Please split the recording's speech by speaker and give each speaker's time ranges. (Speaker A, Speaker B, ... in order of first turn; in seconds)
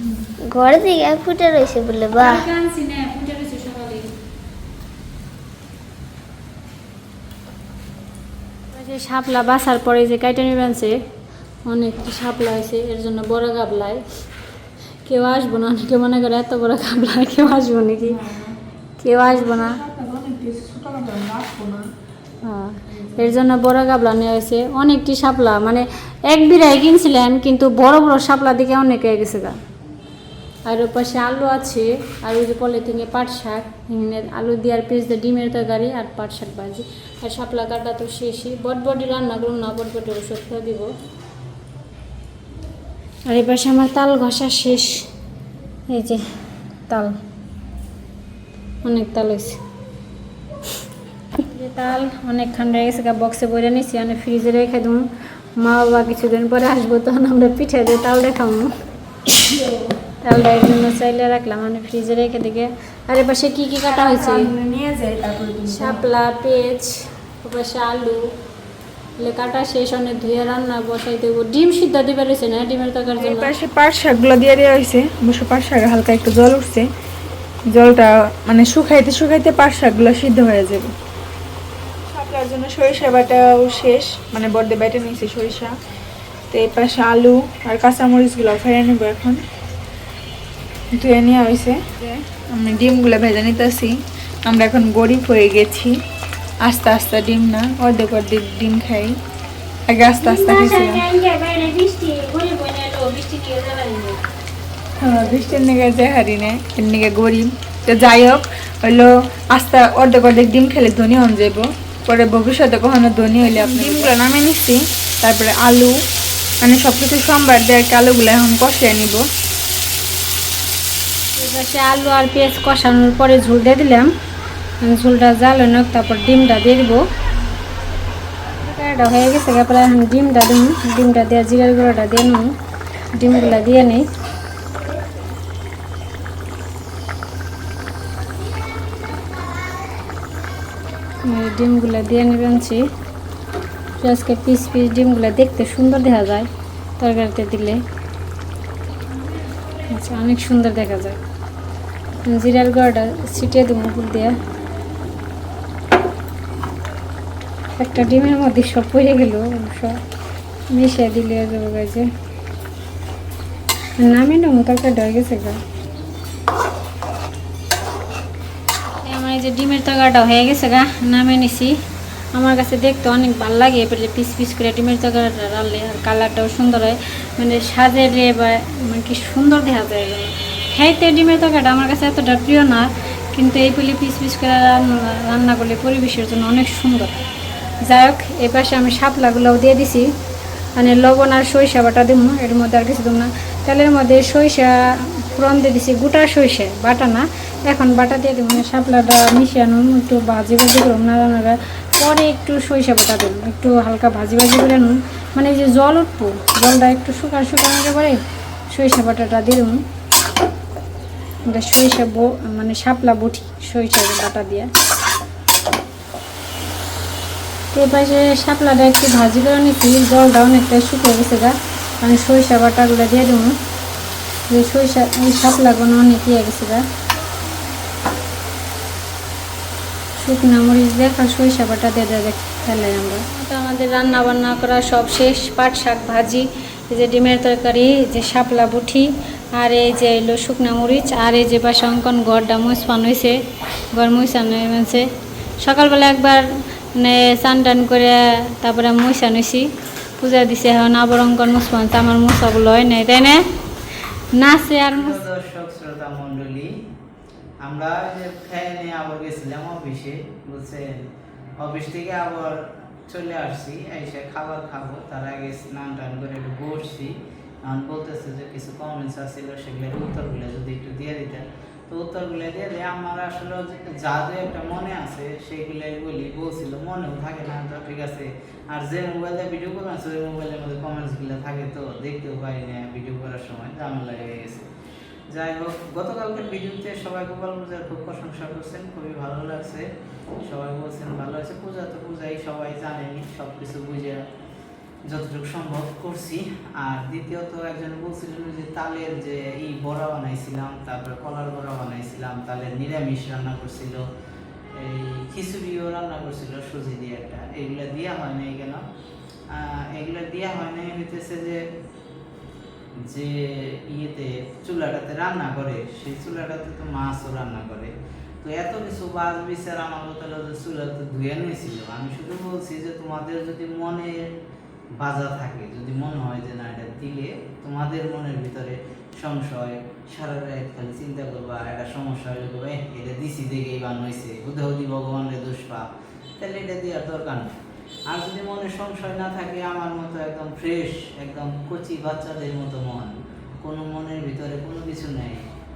Speaker A: 0.4-2.5
Speaker B: 2.2-4.1, 8.7-11.0, 11.7-14.0, 15.1-18.2, 19.0-19.8, 22.4-29.6, 30.7-40.9, 43.3-45.1, 45.9-46.2, 46.9-47.2, 48.8-49.6, 51.4-58.7, 60.2-64.5, 65.7-68.3, 69.2-73.5, 100.2-104.2, 113.5-114.1, 121.3-124.1, 124.8-127.0, 128.6-132.5, 133.1-134.1, 141.2-142.8, 144.0-147.8, 149.9-151.2, 152.3-154.3, 157.8-160.0, 160.7-162.1, 164.0-165.6, 169.1-171.8, 172.3-187.1, 187.8-190.1, 190.8-208.2, 208.7-209.8, 211.5-214.7, 217.7-223.6, 224.5-226.8, 230.2-243.4, 243.9-245.1, 245.6-246.4, 247.0-253.4, 254.3-255.2
Speaker C: 18.1-18.5, 19.3-21.9, 22.9-23.3, 63.9-66.1, 73.2-76.9, 77.7-80.9, 82.1-85.7, 86.5-89.4, 91.0-93.9, 94.5-96.0, 96.6-99.2, 99.9-101.0, 105.0-115.9, 116.6-119.2
Speaker D: 254.9-256.7, 257.6-261.0, 261.6-267.1, 267.7-284.7, 285.3-289.9, 290.5-294.2, 295.1-304.0, 304.8-308.8, 309.5-311.6, 313.1-317.9, 318.4-324.2, 325.0-335.9, 336.4-337.5, 338.1-345.4